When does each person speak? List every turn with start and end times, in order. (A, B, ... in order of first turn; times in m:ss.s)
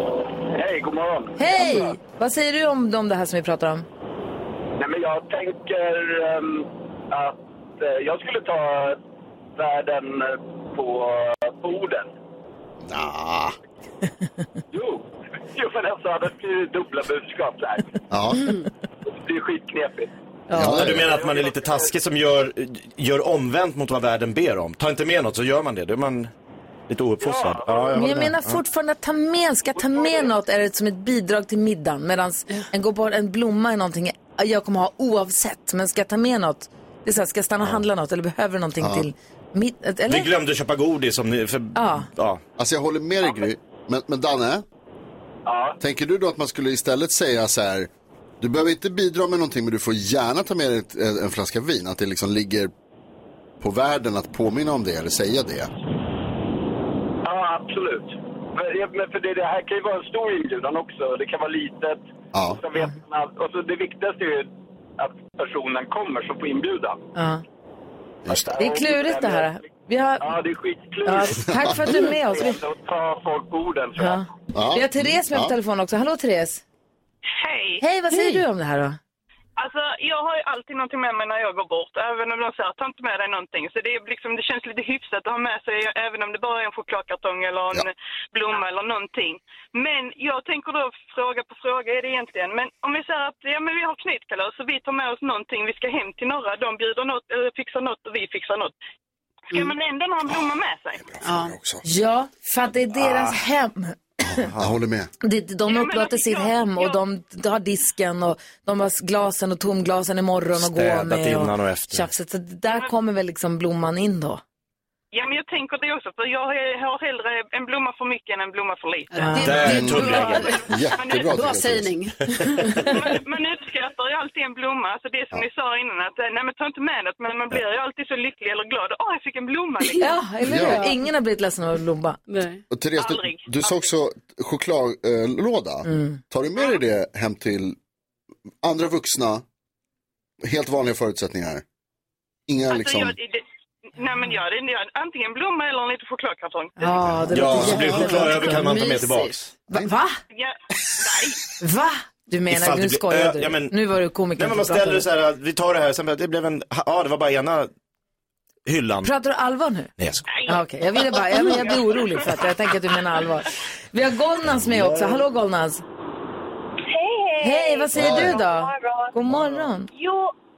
0:00.5-0:01.4 A
0:01.4-0:03.9 B
0:04.8-0:09.0 A
0:09.6-0:12.1 A
0:12.8-0:13.6 C
0:14.7-0:18.0 A
0:18.1-0:18.5 C
0:19.1-0:20.1 A
0:20.5-0:20.9 B
0:20.5-0:21.2 C
0:20.6-0:26.3 D
0:21.0-0:22.0 A
0:26.9-0:28.6 D
0:27.2-0:28.0 A
0:27.9-0:40.3 B
0:29.8-0:30.3 A
0:38.8-0:39.1 C
0:40.1-0:42.4 D
0:41.8-0:42.1 B
0:42.6-0:44.6 C
0:45.5-0:45.8 A
0:45.8-0:52.7 C
0:53.6-0:55.7 C
0:57.2-1:07.0 A
1:07.2-1:07.4 B
1:08.3-1:09.5 A
1:08.4-1:10.4 B
1:10.2-1:14.2 A
1:11.0-1:12.6 B
1:11.6-1:12.0 C
1:14.0-1:16.6 B
1:14.5-1:15.5 C
1:17.4-1:17.8 E
1:17.8-1:19.0 B
1:19.6-1:38.7 E
1:39.5-1:41.1 E
1:41.0-1:41.8 C
1:41.2-1:41.5 F
1:41.8-1:44.4 B
1:43.0-1:43.4 D
1:44.3-1:45.1 C
1:45.2-1:54.4 B
1:45.7-1:47.0 E
1:50.6-1:52.1 D
1:55.1-1:59.2 E
1:59.1-2:02.9 F
1:59.2-2:00.4 B
1:59.4-2:00.6 D
1:59.5-2:02.0 C
2:00.5-2:01.4 E
2:02.8-2:10.1 E
2:09.8-2:10.9 F
2:10.0-2:12.2 B
2:10.4-2:10.9 C
2:12.3-2:12.6 F
2:12.7-2:17.8 C
2:13.0-2:13.8 E
2:15.8-2:16.2 B
2:18.6-2:19.4 C
2:20.4-2:21.6 C
2:22.5-2:23.2 C
2:22.7-2:23.4 E
2:24.0-2:26.9 E
2:26.8-2:28.6 B
2:27.0-2:28.0 C
2:27.3-2:29.5 D
2:27.6-2:29.4 F
2:29.7-2:30.2 B
2:30.3-2:31.4 E
2:31.6-2:35.1 B
2:32.5-2:37.7 D
2:38.7-2:39.1 D
2:39.0-2:39.9 B
2:40.0-2:40.3 D
2:40.3-2:42.8 E
2:40.5-2:45.8 B
2:44.6-2:45.3 D
2:46.9-2:49.1 G
2:47.4-2:49.9 B
2:48.0-2:48.4 D
2:49.9-2:50.3 G